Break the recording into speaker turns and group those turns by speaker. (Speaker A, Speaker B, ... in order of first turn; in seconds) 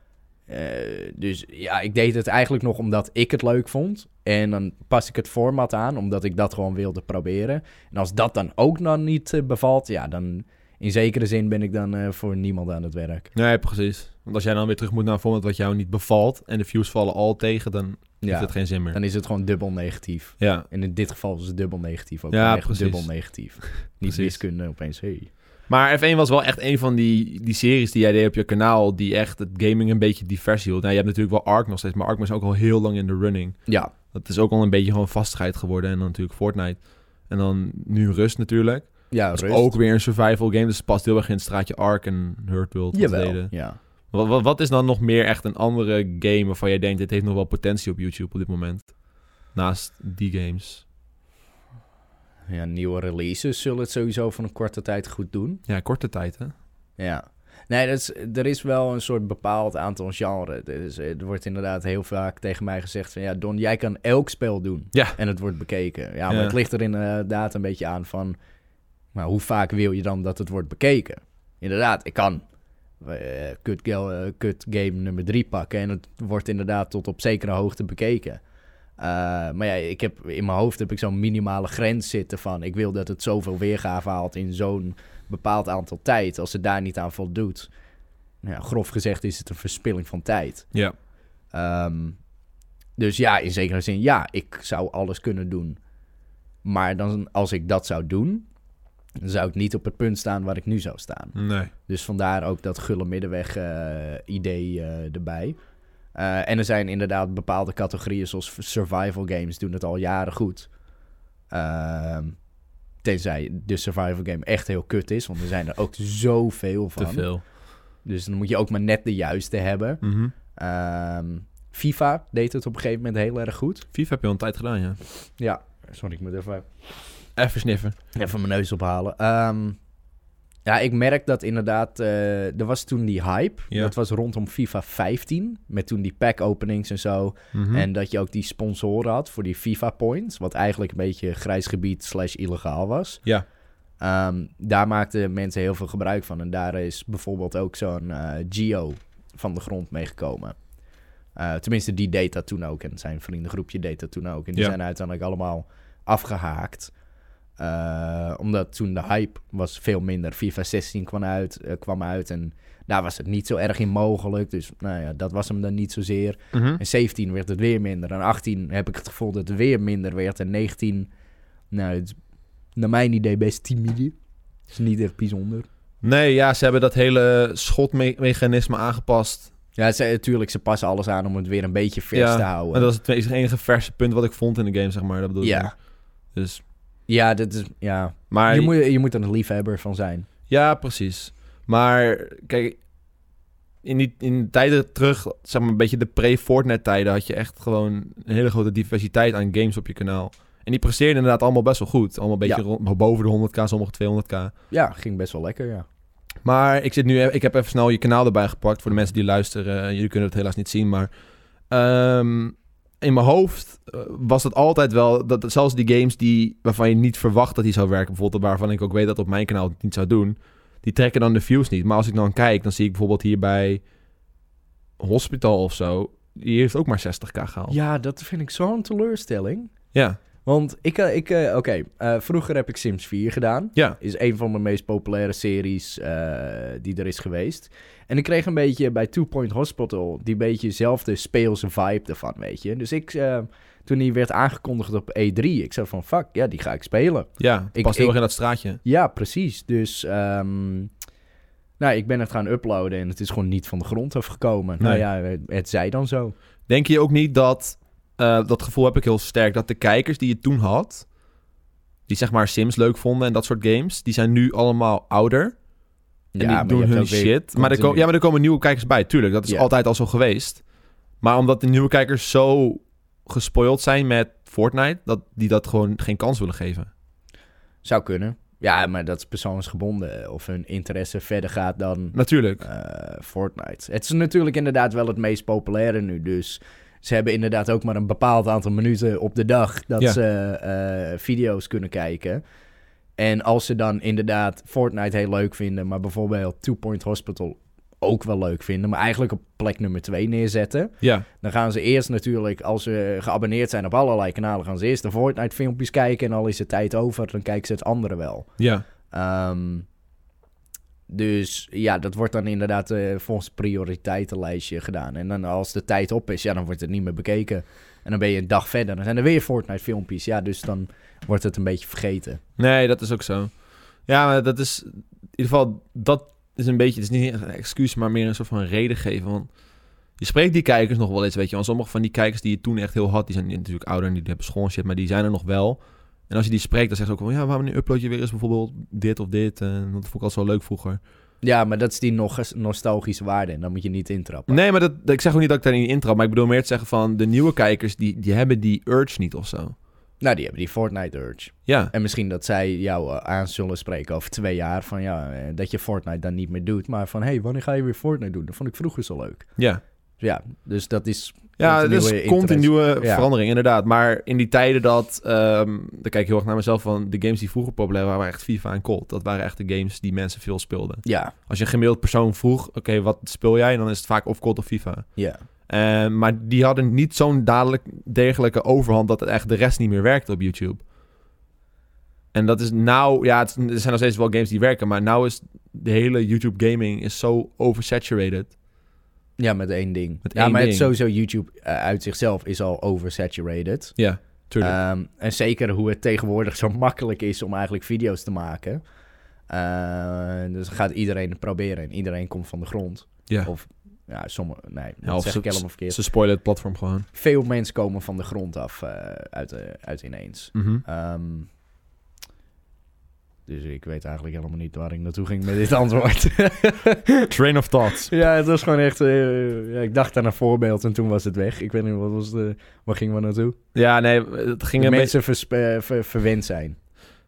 Speaker A: 0.5-13.3, 18.2-25.3, 33.7-33.9, 39.1-39.8, 42.9-43.8, 52.5-55.6, 57.0-68.4, 69.1-72.4, 73.0-78.4, 79.0-87.7, 88.4-90.7, 91.5-92.2, 93.0-95.8, 96.6-98.5, 99.2-105.6, 106.1-110.8, 111.5-112.4, 113.0-123.9, 125.4-126.7, 128.2-129.8, 130.7-143.3, 144.0-150.6, 151.3-156.9, 157.6-171.1, 171.7-172.2, 172.7-174.2, 174.7-175.7, 179.8-182.9, 185.4-185.7, 187.1-190.3, 204.7-205.9, 227.7-229.7, 230.4-248.2, 248.8-250.9, 251.8-256.4, 266.3-268.1, 277.8-292.4, 293.2-308.6, 309.1-309.9, 311.1-322.4, 341.4-344.6, 350.2-359.5, 360.2-363.3, 371.1-371.3, 375.2-375.4, 389.4-394.0, 394.6-398.8, 399.5-406.0, 407.1-411.5, 413.5-417.3, 418.0-423.6, 424.8-426.8
Speaker B: 13.3-19.0, 20.4-20.7, 22.3-24.4, 25.7-43.6, 44.1-50.9, 55.7-56.5, 64.9-65.2, 66.3-66.6, 101.3-101.7, 117.0-117.4, 120.0-120.3, 123.9-125.0, 127.4-128.0, 137.5-137.9, 166.5-166.8, 176.0-179.5, 182.1-186.6, 188.3-188.7, 190.5-192.8, 193.8-204.5, 206.4-211.1, 211.7-223.8, 225.0-227.8, 229.9-230.2, 247.4-248.8, 256.7-261.1, 262.1-265.6, 266.4-270.6, 271.2-276.9, 282.1-282.6, 308.6-308.9, 322.6-329.5, 330.2-341.0, 344.5-349.7, 351.7-351.9, 359.6-359.8, 361.6-380.8, 382.3-388.5, 390.2-390.9, 394.0-394.8, 405.0-407.1, 410.6-410.8, 417.3-418.1, 423.8-425.1